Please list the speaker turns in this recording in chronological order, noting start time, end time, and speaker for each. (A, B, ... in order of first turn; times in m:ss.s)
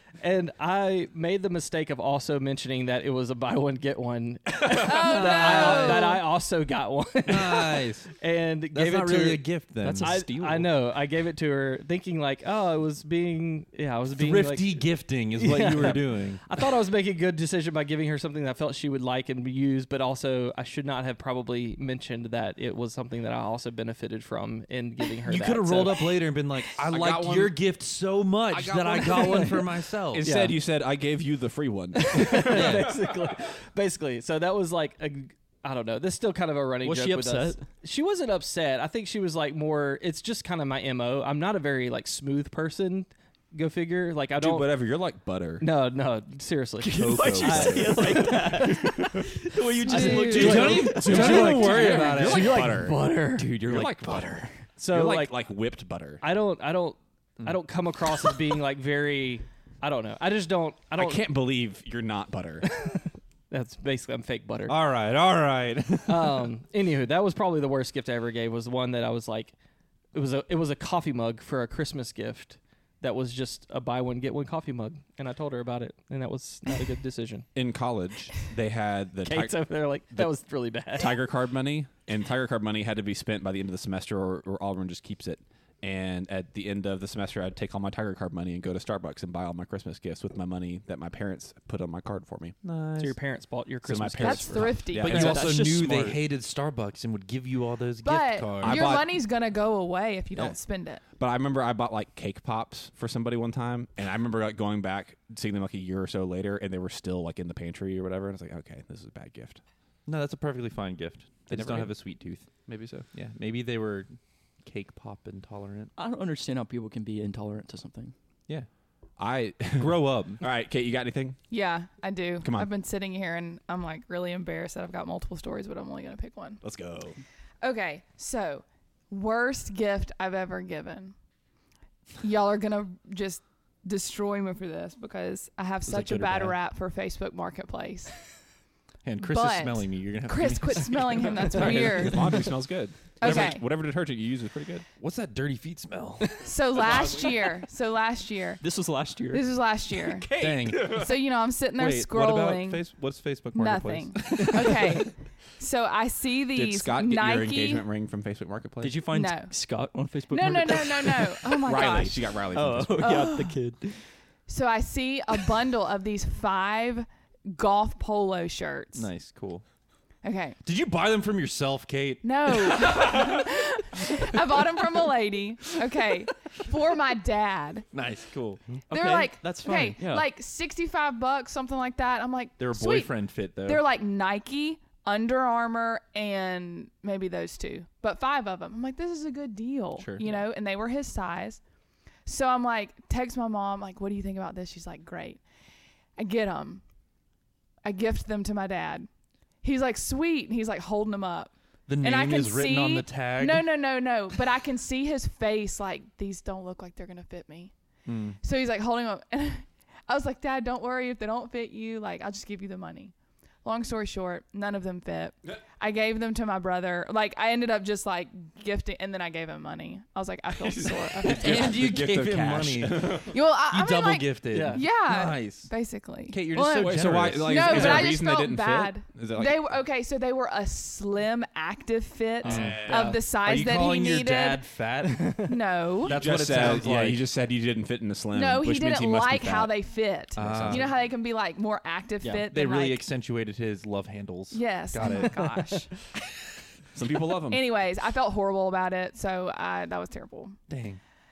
0:00.2-0:26.2 A
0:04.7-0:06.2 B
0:05.0-0:06.1 C
0:07.2-0:08.1 C
0:08.7-0:10.2 C
0:09.8-0:10.6 D
0:14.1-0:16.4 C
0:25.2-0:30.2 C
0:26.9-0:27.6 E
0:28.5-0:32.7 E
0:29.0-0:29.6 A
0:30.2-0:30.6 A
0:32.0-0:44.7 A
0:32.5-0:33.0 C
0:36.8-0:37.6 D
0:44.4-0:45.6 E
0:45.6-0:53.6 A
0:46.8-0:51.8 D
0:46.8-0:48.2 C
0:48.9-0:49.3 E
0:49.8-0:50.7 B
0:50.0-0:52.6 C
0:50.3-0:53.0 E
0:53.3-0:54.6 D
0:53.6-0:56.2 E
0:54.8-0:55.4 A
0:56.2-1:01.2 A
1:01.0-1:02.7 E
1:02.6-1:04.8 A
1:04.7-1:06.5 C
1:06.1-1:09.5 A
1:10.1-1:17.5 A
1:17.5-1:20.3 E
1:19.2-1:21.2 A
1:20.9-1:32.6 E
1:32.6-1:33.2 C
1:33.0-1:34.8 A
1:33.8-1:35.6 E
1:34.2-1:35.4 B
1:35.0-1:36.2 D
1:35.0-1:38.9 C
1:38.0-1:41.0 B
1:38.6-1:39.1 E
1:41.1-1:49.6 E
1:50.0-1:52.5 C
1:51.5-1:52.0 E
1:52.6-1:53.0 E
1:53.1-1:54.1 C
1:54.6-1:55.9 C
1:56.0-1:58.1 D
1:59.2-2:01.4 E
1:59.8-2:00.4 C
2:01.5-2:06.6 B
2:02.4-2:02.7 E
2:06.6-2:07.2 E
2:07.6-2:11.1 B
2:12.2-2:18.2 B
2:15.8-2:16.6 C
2:19.0-2:22.2 C
2:19.2-2:22.5 B
2:21.5-2:24.8 E
2:23.2-2:23.6 B
2:25.0-2:26.3 C
2:26.4-2:28.6 B
2:26.8-2:27.3 E
2:28.6-2:29.5 D
2:29.3-2:32.8 B
2:30.1-2:31.1 E
2:30.4-2:31.1 C
2:31.8-2:35.0 C
2:33.5-2:37.8 B
2:36.5-2:39.0 E
2:38.8-2:42.0 D
2:39.1-2:39.5 B
2:40.3-2:42.2 B
2:41.6-2:43.3 E
2:42.5-2:44.0 D
2:43.0-2:43.6 B
2:44.5-2:49.1 B
2:48.9-2:49.6 C
2:50.2-2:50.6 B
2:50.6-2:53.1 C
2:52.2-2:57.8 B
2:57.9-2:58.6 C
2:58.9-3:00.3 D
2:58.9-3:11.6 B
3:02.6-3:03.8 C
3:10.0-3:10.4 C
3:12.2-3:15.4 B
3:16.2-3:16.8 B
3:17.8-3:19.1 B
3:19.6-3:27.7 B
3:21.9-3:23.8 C
3:28.0-3:28.4 C
3:28.4-3:33.1 B
3:33.6-3:41.8 B
3:40.6-3:43.3 E
3:41.2-3:45.7 C
3:43.3-3:54.6 B
3:44.5-3:44.8 A
3:46.3-3:48.1 C
3:46.5-3:49.6 E
3:52.4-3:53.2 A
3:52.4-3:55.4 C
3:52.4-3:53.2 E
3:55.0-3:55.5 A
3:55.4-3:56.2 B
3:56.0-3:57.2 C
3:56.0-3:59.8 E
3:58.3-4:03.0 B
4:00.4-4:00.9 C
4:00.4-4:00.9 E
4:02.5-4:05.4 C
4:04.5-4:06.0 B
4:05.0-4:05.8 A
4:06.9-4:07.6 E
4:07.5-4:10.6 B
4:10.7-4:11.0 C